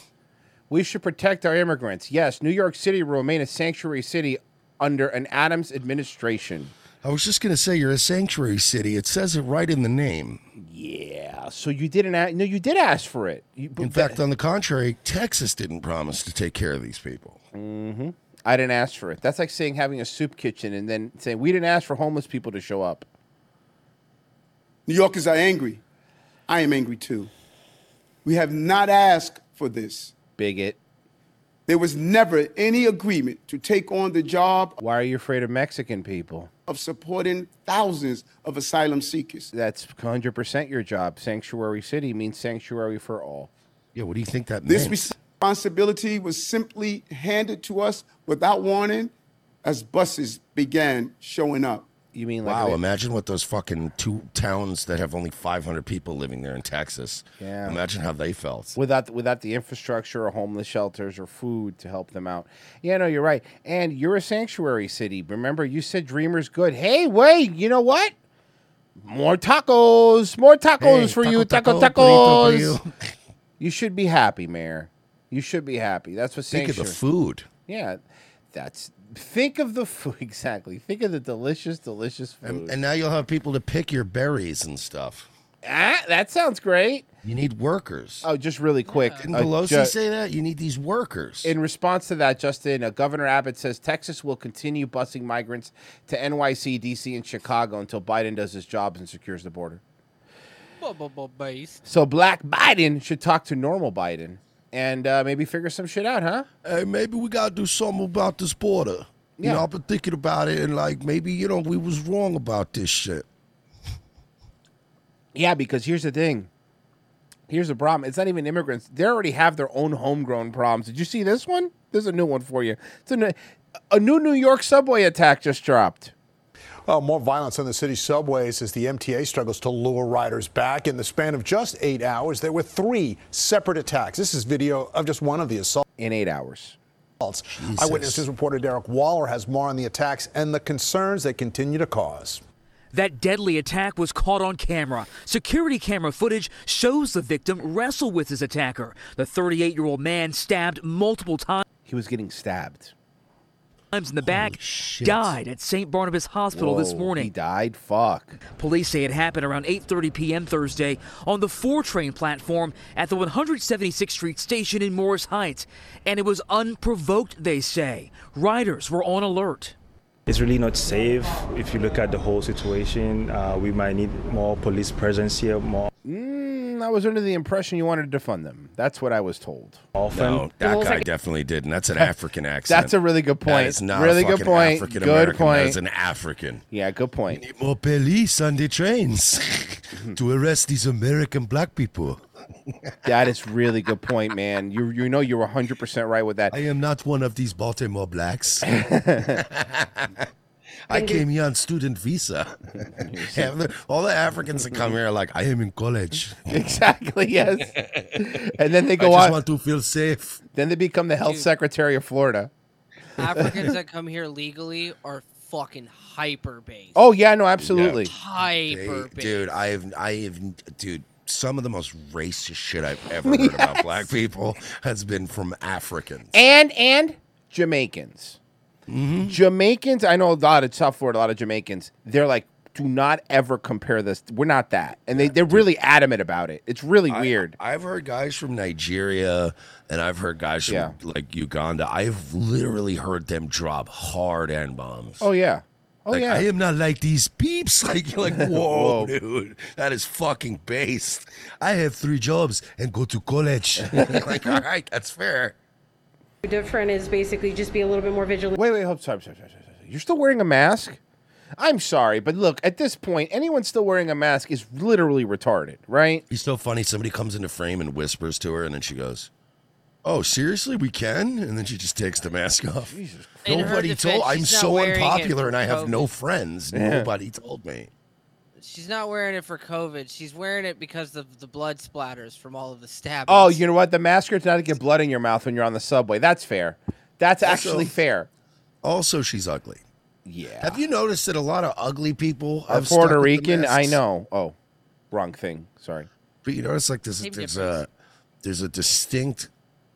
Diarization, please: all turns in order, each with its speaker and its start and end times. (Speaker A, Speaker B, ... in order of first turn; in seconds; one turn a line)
Speaker A: 0.7-6.7
Speaker B: 7.0-10.4
Speaker A: 10.6-14.2
Speaker B: 13.8-17.4
Speaker A: 17.5-23.1
Speaker C: 24.9-25.8
Speaker C: 26.5-27.3
Speaker C: 28.2-30.1
Speaker A: 30.4-30.8
Speaker C: 31.7-34.8
Speaker A: 34.8-36.5
Speaker C: 36.7-39.5
Speaker A: 39.5-43.5
Speaker B: 43.9-45.1
Speaker C: 44.7-49.1
Speaker C: 49.6-51.9
Speaker A: 52.1-52.8
Speaker B: 52.4-58.8
Speaker A: 57.4-57.8
Speaker A: 58.8-68.1
Speaker A: 69.0-72.8
Speaker B: 70.8-72.9
Speaker A: 73.6-77.0
Speaker B: 76.5-77.5
Speaker A: 77.7-78.0
Speaker A: 78.5-82.8
Speaker B: 82.4-85.3
Speaker A: 85.6-87.1
Speaker B: 87.2-88.2
Speaker A: 88.2-89.9
Speaker D: 88.9-89.3
Speaker B: 89.2-91.5
Speaker A: 91.4-99.8
Speaker D: 100.8-101.8
Speaker A: 101.8-106.5
Speaker B: 106.6-113.2
Speaker A: 109.4-109.7
Speaker A: 115.3-116.5
Speaker A: 117.5-123.3
Speaker A: 123.9-126.1
Speaker E: 126.9-135.8
Speaker A: 136.0-136.8
Speaker E: 137.2-141.2
Speaker B: 137.5-138.2
Speaker E: 141.8-142.4
Speaker F: 142.9-151.7
Speaker A: 151.8-152.9
Speaker F: 153.9-157.3
Speaker B: 154.2-155.4
Speaker A: 156.5-158.4
Speaker F: 158.5-169.7
Speaker G: 170.3-175.9
Speaker A: 176.0-179.8
Speaker G: 179.9-180.5
Speaker B: 180.1-186.6
Speaker A: 182.7-185.8
Speaker A: 186.7-187.4
Speaker B: 187.3-192.2
Speaker A: 193.1-196.5
Speaker B: 196.5-198.7
Speaker A: 198.7-199.4
Speaker B: 199.3-200.2
Speaker B: 200.9-202.5
Speaker A: 200.9-201.2
Speaker A: 203.0-203.5
Speaker B: 203.3-206.4
Speaker A: 206.5-209.4
Speaker B: 207.7-208.2
Speaker B: 209.0-210.4
Speaker A: 210.5-212.5
Speaker D: 213.2-217.0
Speaker A: 213.3-213.7
Speaker A: 216.9-218.1
Speaker B: 217.6-218.1
Speaker D: 218.1-219.4
Speaker B: 218.6-226.4
Speaker A: 223.2-224.1
Speaker A: 226.3-228.4
Speaker B: 228.9-229.4
Speaker A: 229.3-237.5
Speaker B: 235.1-235.7
Speaker B: 237.1-245.3
Speaker A: 240.7-240.9
Speaker A: 245.2-246.4
Speaker B: 246.1-255.5
Speaker A: 248.4-249.1
Speaker A: 253.9-254.6
Speaker H: 256.4-258.5
Speaker A: 258.5-261.0
Speaker A: 261.6-266.2
Speaker B: 266.3-269.3
Speaker B: 270.0-277.9
Speaker A: 272.9-273.8
Speaker D: 273.4-276.1
Speaker A: 276.7-277.1
Speaker D: 278.6-283.6
Speaker A: 283.3-288.3
Speaker B: 287.4-287.9
Speaker B: 288.8-289.8
Speaker A: 290.2-290.8
Speaker B: 290.6-294.0
Speaker A: 292.7-294.5
Speaker A: 295.1-296.1
Speaker B: 296.4-297.9
Speaker D: 297.2-297.8
Speaker B: 298.4-299.5